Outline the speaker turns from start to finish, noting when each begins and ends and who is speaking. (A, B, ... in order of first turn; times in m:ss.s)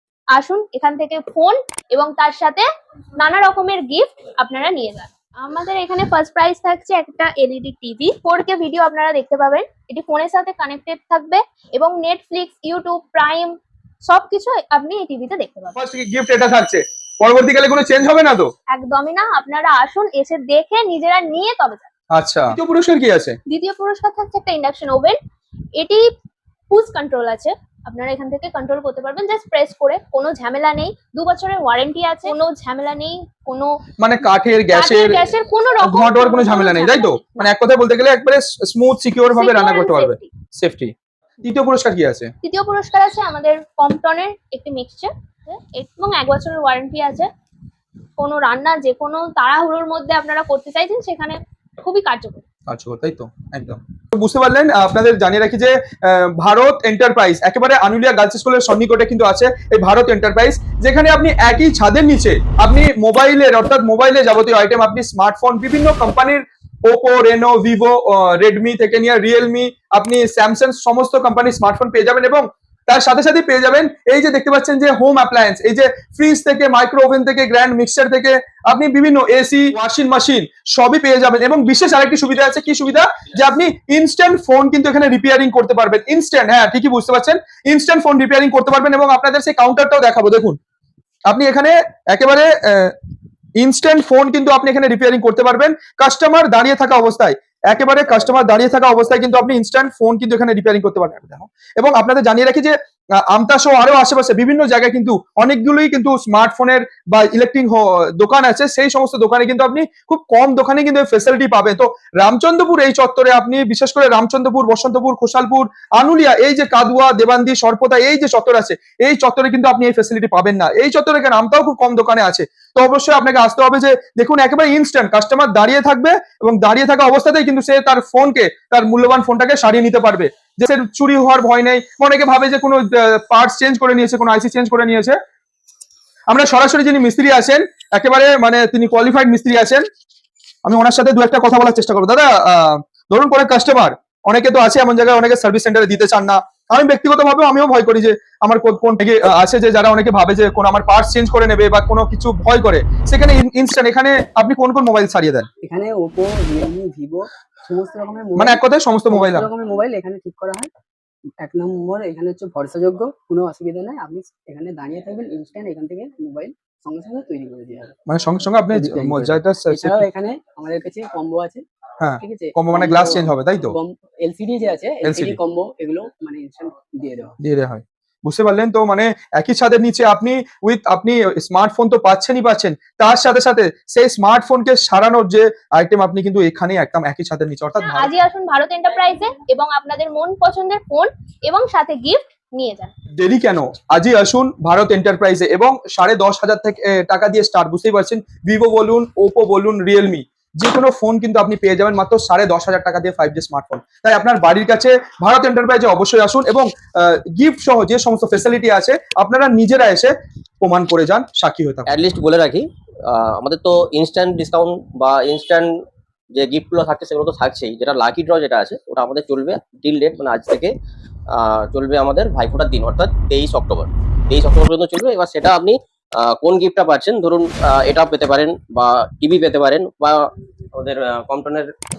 0:00.3-0:02.7 A
0:03.2-0:15.8 A
0:15.8-0:18.5 B
0:18.7-0:21.9 A
0:22.1-0:23.4 B
0:23.5-0:25.2 A
0:25.8-0:26.1 A
0:26.7-0:33.8 A
0:34.0-0:35.2 B
0:34.7-0:37.5 A
0:35.8-0:42.3 B
0:39.3-0:40.3 A
0:42.4-0:47.3 A
0:48.2-0:52.4 A
0:52.7-1:30.6 B
1:31.3-1:33.0 B
1:33.6-2:15.2 B
2:16.3-2:19.8 B
2:20.6-2:35.5 B
2:35.6-2:38.6 C
2:38.4-2:39.5 B
2:39.1-2:40.7 C
2:41.4-2:48.0 C
2:48.1-2:50.0 B
2:48.7-2:51.6 C
2:52.0-2:53.8 B
2:52.2-2:57.3 C
2:55.0-2:55.4 B
2:57.4-3:08.1 B
3:07.8-3:12.9 A
3:13.2-3:31.9 B
3:31.9-3:35.7 D
3:36.3-3:40.7 D
3:41.3-3:51.7 D